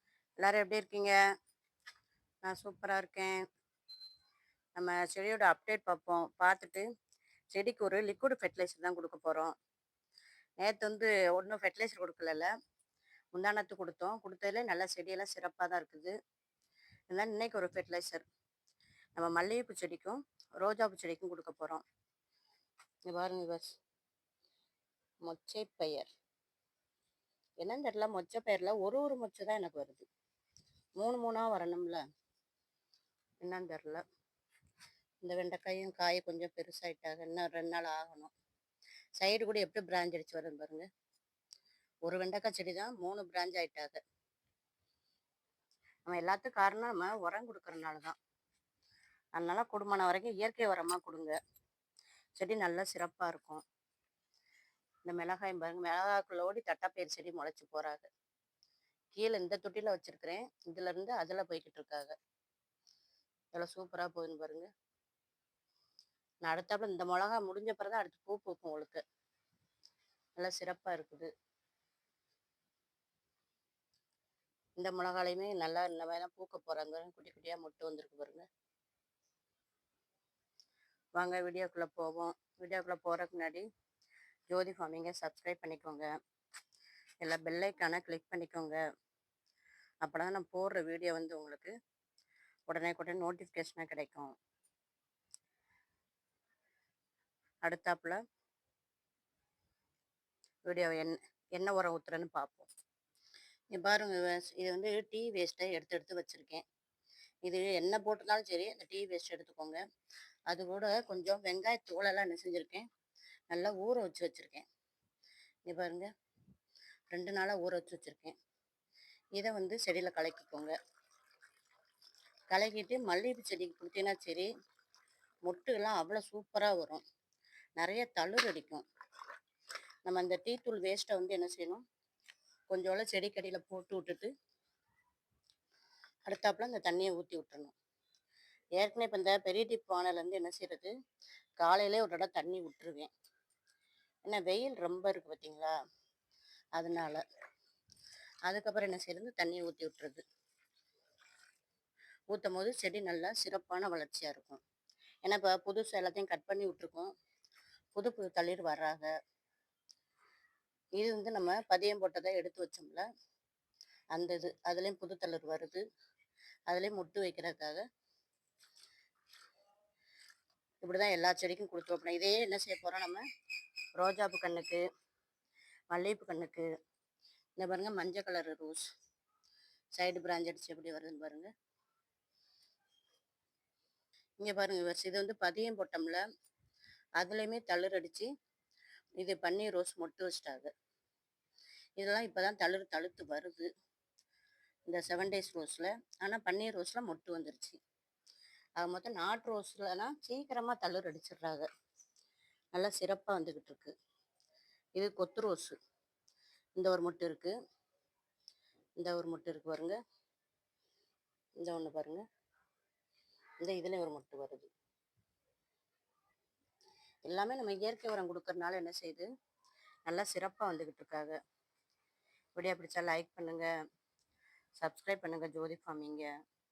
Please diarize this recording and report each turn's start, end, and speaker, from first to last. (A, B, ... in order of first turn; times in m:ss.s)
0:00.4-0:01.1 A
0:02.4-0:03.4 A
0:04.8-0:06.8 A
0:07.5-0:09.5 A
0:10.6-0:12.5 A
0:13.3-0:16.1 A
0:17.1-0:18.2 A
0:19.2-0:21.8 A
0:23.1-0:23.7 A
0:25.3-0:26.1 A
0:27.6-0:30.1 A
0:31.0-0:32.0 A
0:33.4-0:34.0 A
0:35.2-0:38.3 A
0:39.2-0:40.9 A
0:42.0-0:44.0 A
0:46.1-0:48.2 A
0:49.4-0:51.3 A
0:52.4-0:53.6 A
0:55.0-0:58.1 A
0:59.1-1:02.1 A
1:03.5-1:04.7 A
1:06.4-1:09.0 A
1:10.4-1:11.3 A
1:14.8-1:18.5 A
1:21.2-1:23.6 A
1:24.5-1:26.1 A
1:27.2-1:28.8 A
1:30.0-1:31.7 A
1:32.7-1:34.3 A
1:37.6-1:38.2 A
1:40.7-1:42.7 A
1:43.7-1:46.6 A
1:47.4-1:49.8 A
1:50.5-1:52.8 A
1:53.5-1:54.6 A
1:55.7-1:56.1 A
1:57.1-1:58.3 A
1:59.4-2:00.7 A
2:02.5-2:04.5 A
2:05.5-2:07.0 A
2:07.8-2:08.8 A
2:10.1-2:11.8 A
2:12.7-2:14.3 A
2:16.3-2:17.7 A
2:18.8-2:20.9 A
2:21.6-2:23.1 A
2:24.2-2:25.7 A
2:26.8-2:27.2 A
2:28.5-2:30.2 A
2:32.3-2:34.6 A
2:35.2-2:37.1 A
2:38.0-2:39.1 A
2:41.0-2:43.0 A
2:44.2-2:45.8 A
2:46.7-2:47.8 A
2:50.8-2:53.2 A
2:54.0-2:54.8 A
2:55.9-2:56.7 A
2:57.6-2:58.9 A
3:00.0-3:01.5 A
3:04.4-3:06.2 A
3:07.2-3:08.3 A
3:09.2-3:10.7 A
3:12.0-3:13.7 A
3:14.9-3:17.8 A
3:18.8-3:21.7 A
3:22.7-3:23.9 A
3:25.0-3:25.8 A
3:26.8-3:27.5 A
3:29.0-3:30.0 A
3:31.6-3:32.2 A
3:33.6-3:34.7 A
3:37.2-3:39.3 A
3:40.1-3:41.4 A
3:42.6-3:43.7 A
3:44.8-3:46.3 A